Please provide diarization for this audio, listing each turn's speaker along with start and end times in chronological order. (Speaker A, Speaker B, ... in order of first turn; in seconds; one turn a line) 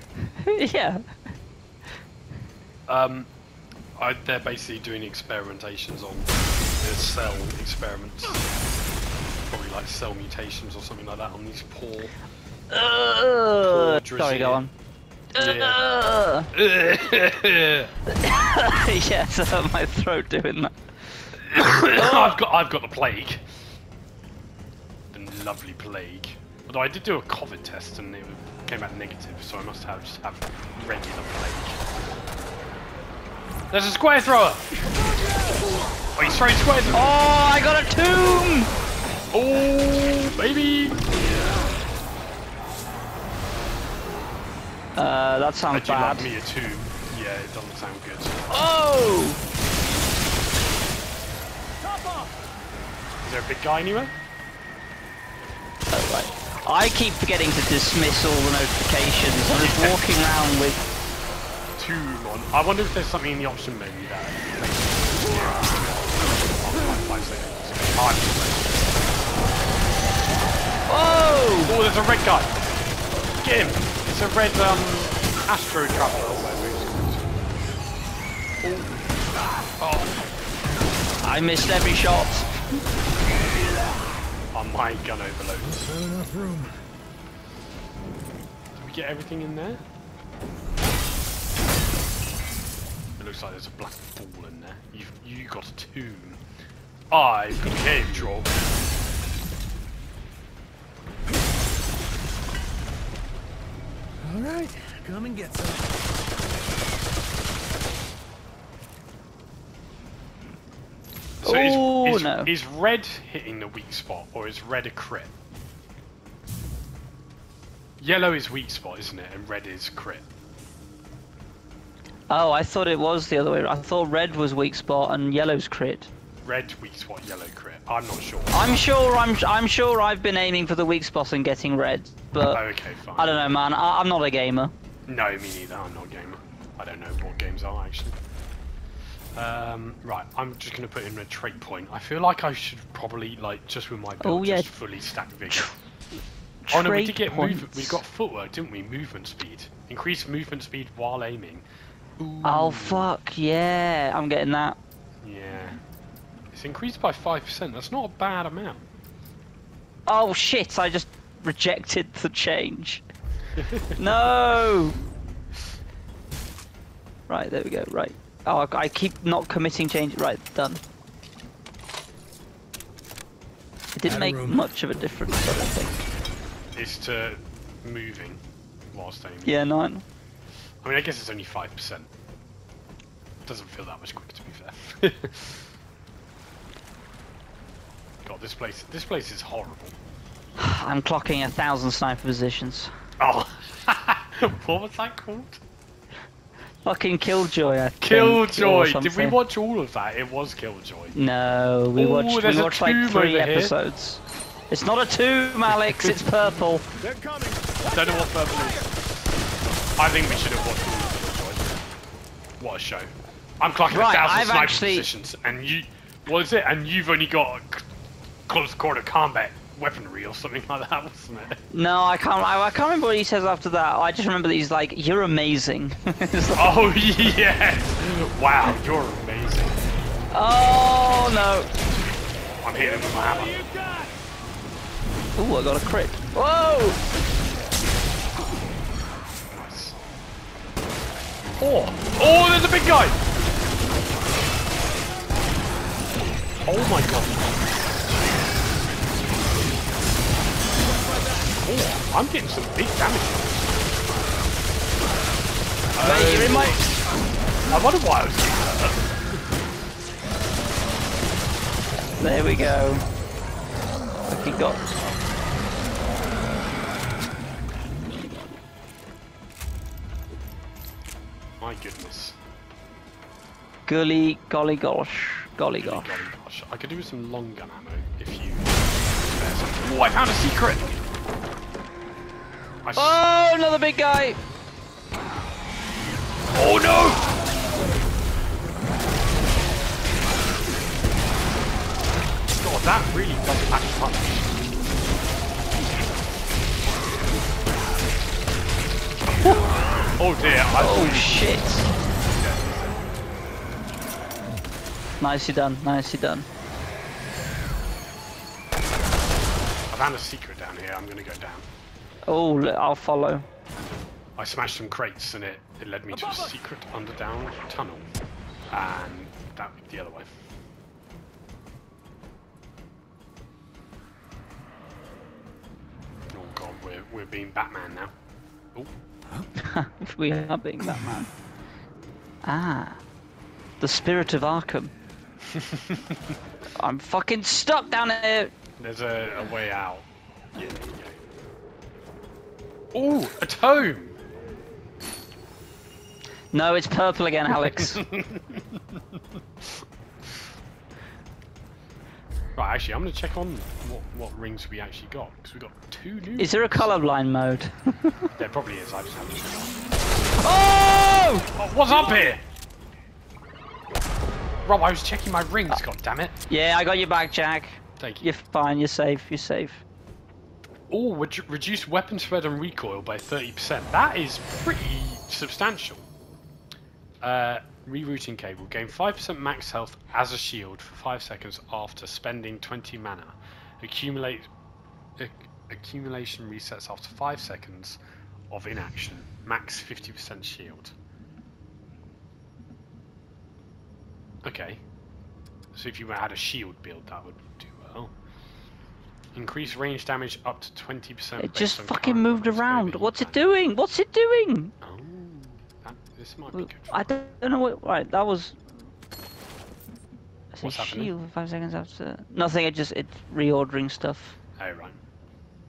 Speaker A: 0.2-1.0
Speaker B: 2.9-3.3
Speaker B: 4.0-8.4
Speaker B: 9.5-12.1
Speaker A: 12.7-14.7
Speaker B: 13.7-14.6
Speaker A: 15.3-16.5
Speaker B: 15.3-15.8
Speaker B: 16.5-17.9
Speaker A: 18.1-20.7
Speaker B: 21.5-23.4
Speaker A: 21.9-22.4
Speaker B: 25.1-31.8
Speaker B: 33.7-34.7
Speaker B: 36.1-37.1
Speaker A: 36.9-38.7
Speaker B: 39.3-41.1
Speaker A: 45.0-46.3
Speaker B: 45.7-48.4
Speaker A: 48.5-49.4
Speaker C: 51.8-52.3
Speaker B: 53.2-54.1
Speaker A: 55.9-60.9
Speaker B: 59.5-60.0
Speaker B: 61.8-69.1
Speaker A: 70.9-71.7
Speaker B: 71.6-72.6
Speaker B: 73.4-77.4
Speaker B: 79.8-80.2
Speaker A: 81.2-82.5
Speaker B: 84.5-86.0
Speaker C: 85.9-86.7
Speaker B: 88.8-89.8
Speaker B: 93.2-96.4
Speaker B: 97.1-98.5
Speaker C: 104.2-105.9
Speaker B: 111.4-115.3
Speaker A: 111.4-112.5
Speaker B: 118.0-120.2
Speaker A: 122.3-126.1
Speaker B: 126.4-128.8
Speaker A: 128.5-132.6
Speaker B: 132.4-133.6
Speaker A: 133.2-134.7
Speaker B: 135.1-138.2
Speaker B: 139.3-145.8
Speaker A: 144.2-144.7
Speaker A: 146.6-148.0
Speaker B: 146.7-151.6
Speaker B: 152.2-153.1
Speaker A: 152.4-154.8
Speaker B: 155.2-155.8
Speaker B: 156.5-158.8
Speaker A: 160.1-163.0
Speaker B: 163.6-164.0
Speaker A: 163.9-165.0
Speaker A: 167.3-170.8
Speaker A: 173.9-176.1
Speaker C: 174.1-174.6
Speaker B: 176.7-178.4
Speaker B: 178.9-179.6
Speaker A: 179.4-180.0
Speaker B: 180.8-182.1
Speaker B: 183.4-185.7
Speaker B: 188.2-189.9
Speaker A: 190.6-192.9
Speaker B: 193.2-195.6
Speaker A: 196.8-199.4
Speaker B: 198.0-201.2
Speaker A: 201.1-206.8
Speaker B: 201.9-203.7
Speaker C: 207.0-208.9
Speaker B: 207.9-208.9
Speaker B: 210.0-211.8
Speaker B: 212.6-217.9
Speaker A: 213.9-215.1
Speaker B: 218.5-221.6
Speaker A: 221.7-226.8
Speaker B: 226.5-229.8
Speaker A: 230.3-231.7
Speaker B: 232.6-233.7
Speaker C: 232.7-234.1
Speaker A: 235.4-237.0
Speaker B: 239.5-240.0
Speaker B: 241.6-243.2
Speaker B: 246.7-247.6
Speaker C: 250.9-251.4
Speaker B: 251.6-253.8
Speaker B: 255.9-256.9
Speaker A: 256.0-256.9
Speaker B: 257.7-259.0
Speaker A: 262.2-263.0
Speaker A: 264.3-264.8
Speaker B: 271.6-272.4
Speaker A: 273.9-276.2
Speaker B: 275.8-281.0
Speaker B: 282.8-283.2
Speaker A: 282.9-284.4
Speaker B: 286.5-287.3
Speaker B: 292.6-294.5
Speaker B: 300.2-301.6
Speaker A: 300.7-301.9
Speaker B: 302.1-303.0
Speaker A: 305.2-306.5
Speaker B: 309.9-311.7
Speaker A: 312.2-313.4
Speaker B: 314.4-318.1
Speaker B: 318.7-320.3
Speaker B: 326.3-328.1
Speaker A: 329.6-331.3
Speaker A: 332.4-333.0
Speaker A: 333.8-334.9
Speaker B: 335.5-336.2
Speaker A: 336.8-338.5
Speaker B: 338.8-341.1
Speaker B: 342.9-344.1
Speaker A: 346.5-348.0
Speaker B: 347.7-348.8
Speaker B: 352.6-356.9
Speaker A: 356.4-358.3
Speaker B: 358.4-359.7
Speaker A: 360.4-361.5
Speaker B: 361.6-362.4
Speaker B: 364.6-366.3
Speaker A: 366.5-369.8
Speaker B: 368.0-368.3
Speaker B: 370.9-376.1
Speaker B: 377.2-384.5
Speaker B: 385.2-388.0
Speaker B: 388.5-390.9
Speaker B: 394.4-394.8
Speaker B: 395.7-398.1
Speaker B: 399.3-403.4
Speaker A: 401.4-404.7
Speaker B: 404.8-407.1
Speaker A: 406.5-408.6
Speaker A: 410.5-414.4
Speaker B: 410.6-411.1
Speaker B: 414.6-415.0